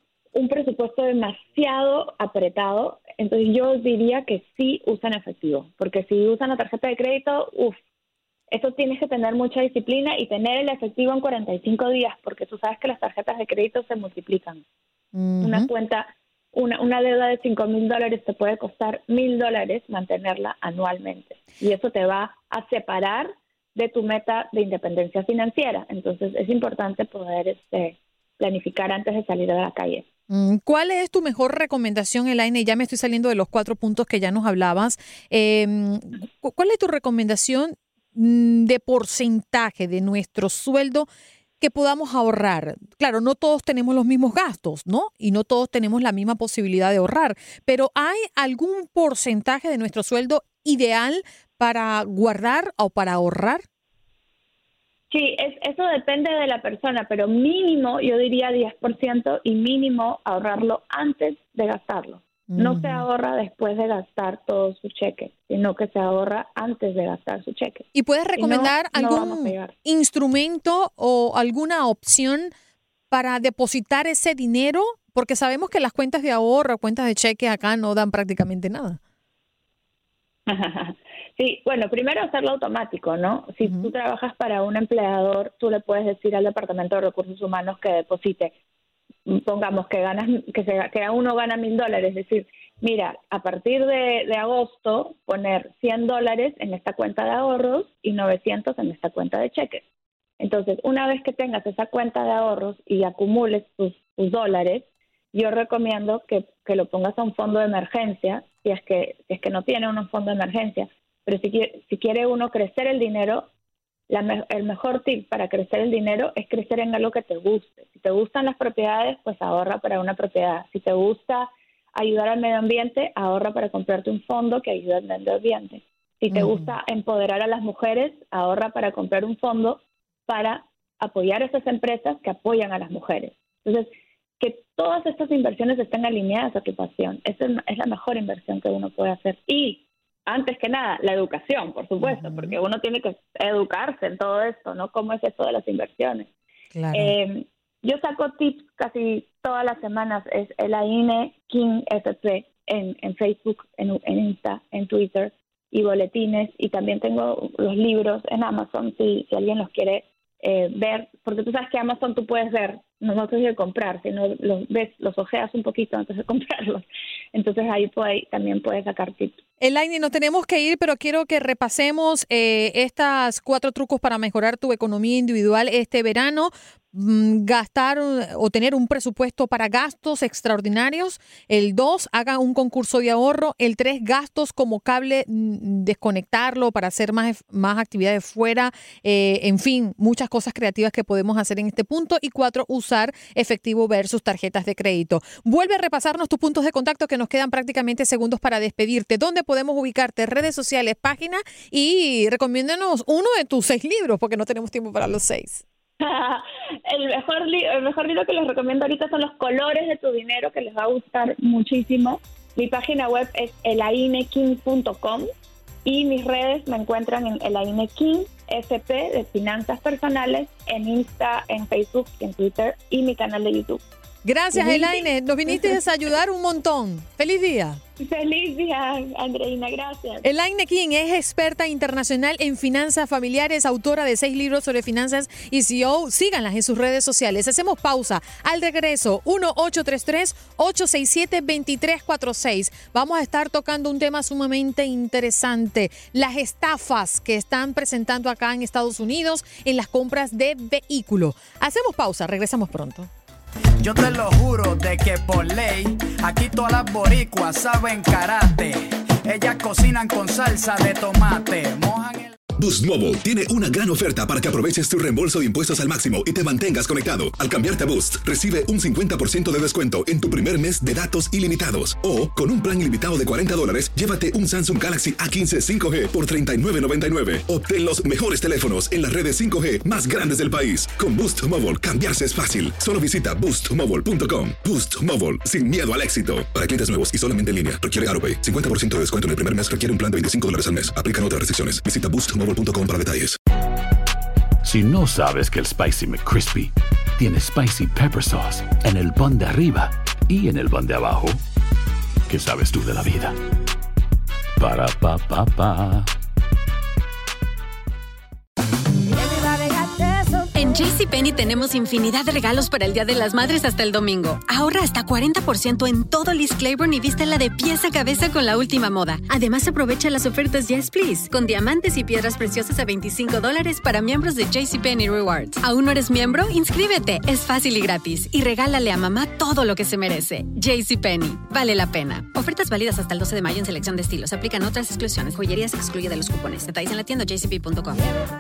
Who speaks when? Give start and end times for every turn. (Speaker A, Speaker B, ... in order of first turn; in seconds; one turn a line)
Speaker A: 0.3-7.8
Speaker A: 8.5-14.6
Speaker B: 15.1-15.7
Speaker A: 15.4-30.1
Speaker B: 30.3-41.1
Speaker B: 41.6-53.6
Speaker A: 55.1-69.8
Speaker B: 62.5-63.0
Speaker B: 67.9-72.5
Speaker B: 73.1-79.0
Speaker A: 80.5-88.5
Speaker B: 83.6-83.9
Speaker A: 89.3-99.8
Speaker A: 100.4-113.5
Speaker A: 114.1-133.9
Speaker B: 126.3-126.7
Speaker A: 134.4-146.3
Speaker B: 142.0-142.6
Speaker B: 146.7-147.1
Speaker A: 146.9-169.4
Speaker B: 169.6-205.6
Speaker A: 206.0-215.3
Speaker A: 215.8-223.8
Speaker B: 224.2-227.8
Speaker A: 224.5-225.8
Speaker A: 228.0-230.2
Speaker B: 230.2-253.1
Speaker C: 253.8-262.3
Speaker D: 262.6-293.4
Speaker E: 294.6-301.4
Speaker E: 302.3-303.4
Speaker E: 304.6-306.1
Speaker F: 310.5-338.0